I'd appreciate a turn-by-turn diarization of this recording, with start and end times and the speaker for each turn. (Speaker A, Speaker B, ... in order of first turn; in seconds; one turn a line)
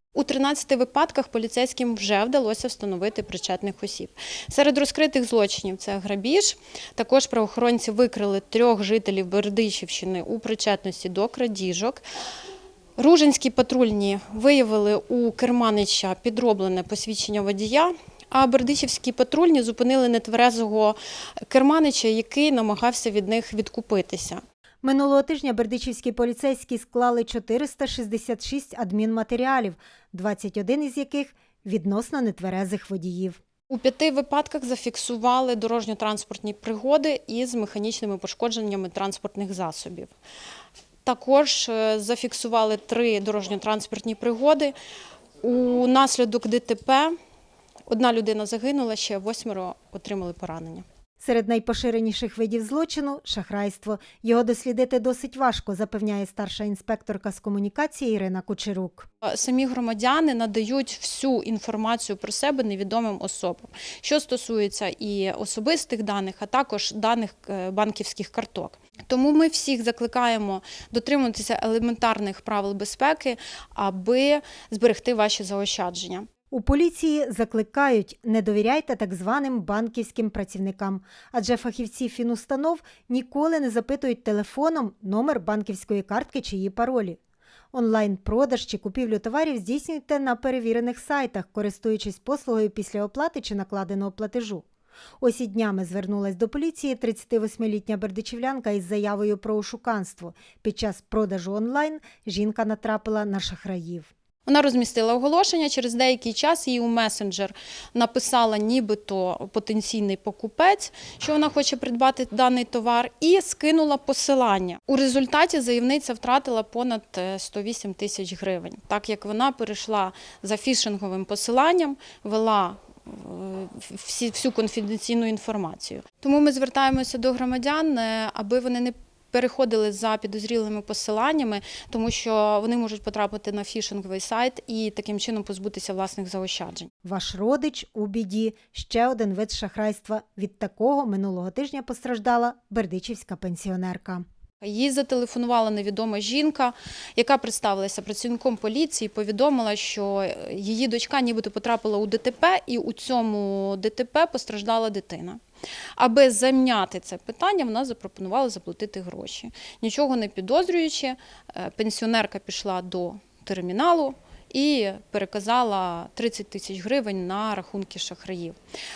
Speaker A: 0.1-12.0
Speaker A: 13.0-21.0
Speaker A: 21.5-24.4
Speaker B: 24.8-33.4
Speaker A: 33.7-40.1
Speaker A: 41.0-44.7
Speaker A: 45.4-47.1
Speaker A: 47.9-50.9
Speaker B: 51.2-59.1
Speaker A: 59.2-76.3
Speaker B: 76.5-87.2
Speaker B: 87.7-94.7
Speaker B: 95.2-104.1
Speaker A: 104.5-136.9
Speaker B: 137.0-144.2
Speaker A: 144.6-155.4
Speaker A: 156.0-168.6